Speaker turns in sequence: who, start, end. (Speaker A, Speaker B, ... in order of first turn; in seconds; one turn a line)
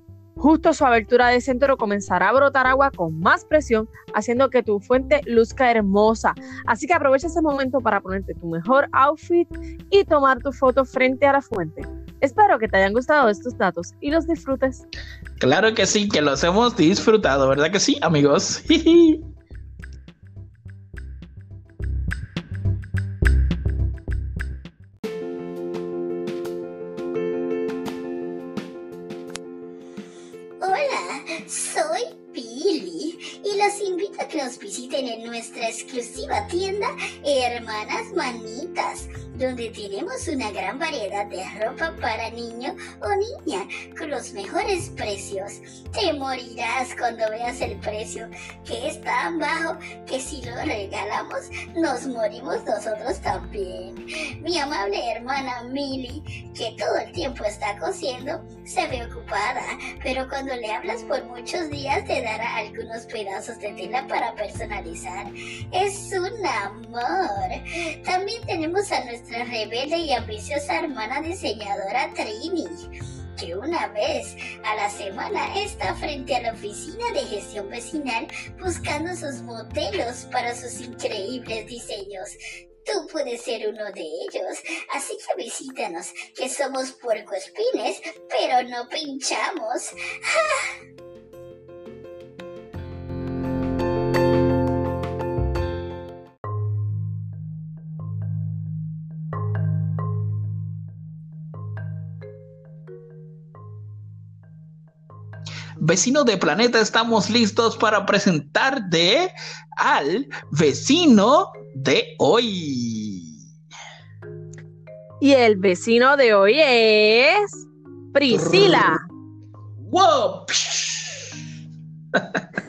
Speaker A: 0.4-14.8
Speaker B: 15.4-19.3
Speaker C: 30.6-72.8
Speaker C: 73.4-90.7
Speaker B: 105.8-113.3
Speaker A: 115.2-119.0
Speaker B: 118.3-119.0
Speaker B: 119.8-121.3
Speaker B: 122.1-122.5